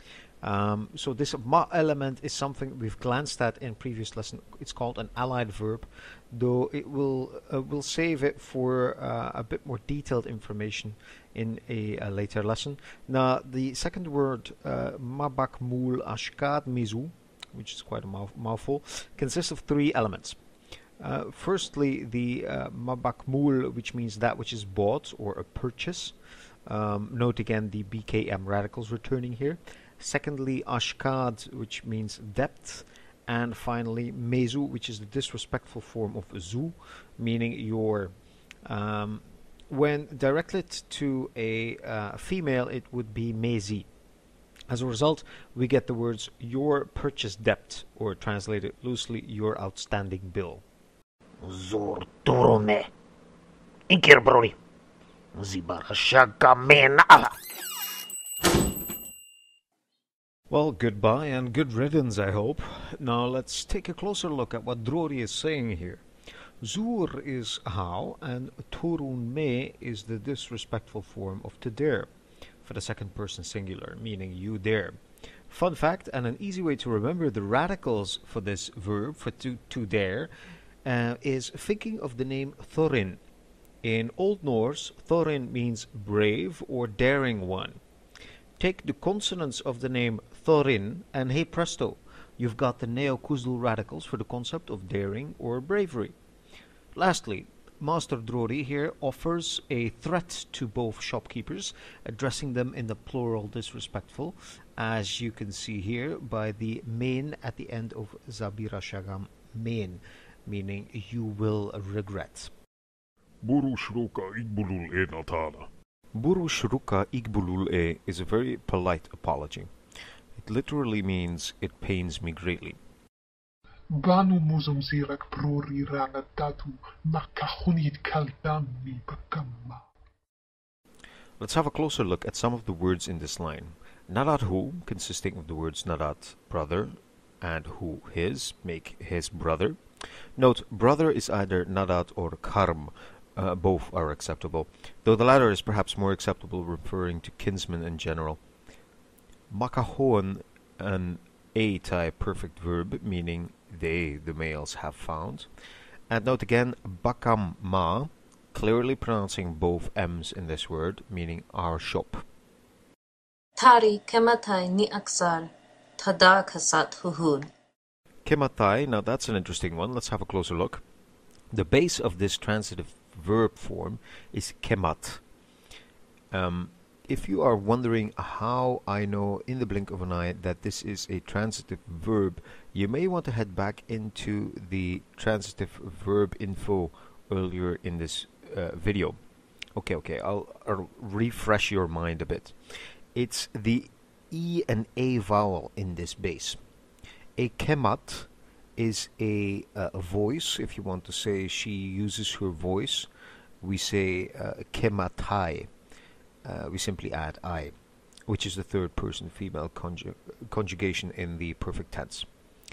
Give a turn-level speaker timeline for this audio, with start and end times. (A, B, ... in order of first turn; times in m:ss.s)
0:00.4-0:20.4 A
0:21.0-0:26.2 A
0:26.7-0:38.1 A
0:38.6-0:43.9 A
0:44.7-0:50.6 A
0:51.4-0:52.9 B
0:53.9-0:54.6 B
0:55.4-0:57.3 B
1:00.5-1:06.0 A
1:06.6-1:12.1 A
1:12.6-1:20.3 A
1:20.8-1:23.2 A
1:23.8-1:27.8 A
1:28.6-1:36.2 A
1:37.0-1:52.5 A
1:53.4-1:55.7 C
1:56.1-1:59.7 A
2:00.4-2:02.8 A
2:04.0-2:09.8 D
2:11.4-2:19.8 A
2:20.4-2:28.4 A
2:29.5-2:35.5 A
2:36.1-2:42.2 A
2:43.6-2:47.5 E
2:48.2-2:50.8 A
2:51.5-2:55.2 A
2:56.3-3:09.2 A
3:09.8-3:12.6 A
3:13.2-3:16.6 A
3:17.4-3:23.1 A
3:23.6-3:25.7 A
3:26.4-3:27.7 A
3:28.3-3:32.3 A